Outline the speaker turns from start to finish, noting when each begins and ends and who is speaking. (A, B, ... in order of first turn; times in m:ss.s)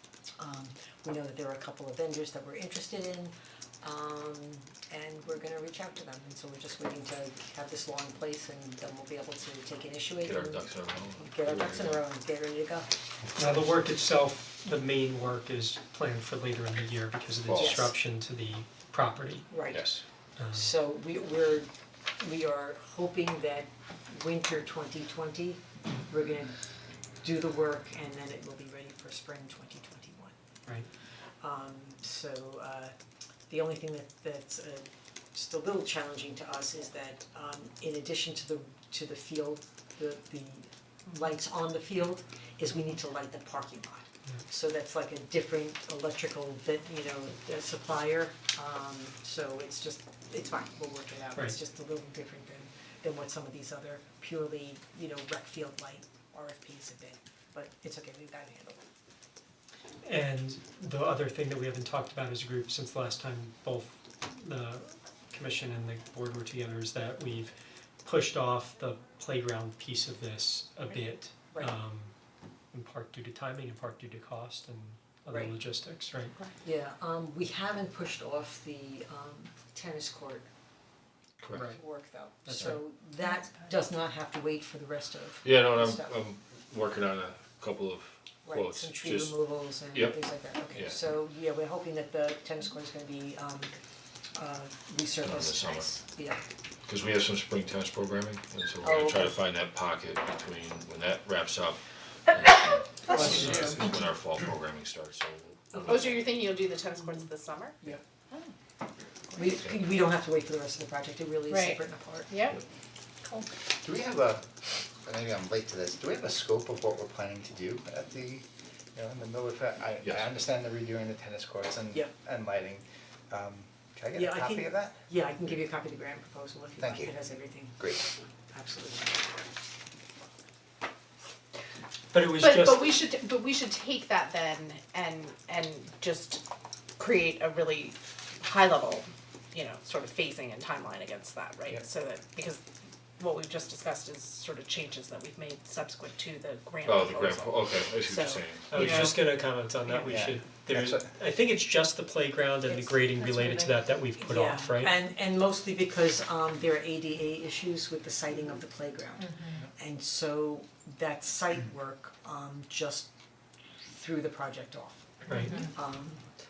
0:00.4-0:12.9 A
0:10.2-0:12.0 B
0:13.4-0:19.5 C
0:17.4-0:17.9 B
0:17.6-0:17.9 A
0:19.5-0:19.8 A
0:19.7-0:20.0 B
0:20.4-0:20.7 C
0:20.5-0:26.6 A
0:27.2-0:30.4 A
0:31.4-0:33.0 A
0:33.5-0:58.8 A
1:00.0-1:12.1 C
1:12.7-1:16.3 C
1:16.6-1:20.4 A
1:21.4-1:21.7 B
1:21.5-1:26.2 A
1:22.4-1:22.8 C
1:25.4-1:29.3 B
1:28.4-1:33.7 A
1:29.9-1:31.0 B
1:34.3-1:36.4 A
1:35.2-1:35.9 B
1:36.9-1:46.0 B
1:38.8-1:39.3 A
1:43.2-1:43.7 A
1:45.7-1:46.1 A
1:45.8-1:47.8 D
1:49.3-1:52.5 A
1:51.5-1:52.6 D
1:53.8-1:54.5 E
1:55.0-2:05.0 E
2:00.0-2:00.3 B
2:04.1-2:09.4 A
2:06.8-2:07.1 E
2:12.1-2:13.0 C
2:12.4-2:16.4 D
2:17.0-2:22.6 D
2:23.2-2:29.2 D
2:26.9-2:28.8 B
2:28.7-2:35.0 C
2:30.1-2:31.1 E
2:34.2-2:43.1 A
2:43.9-2:46.2 A
2:45.3-2:45.7 C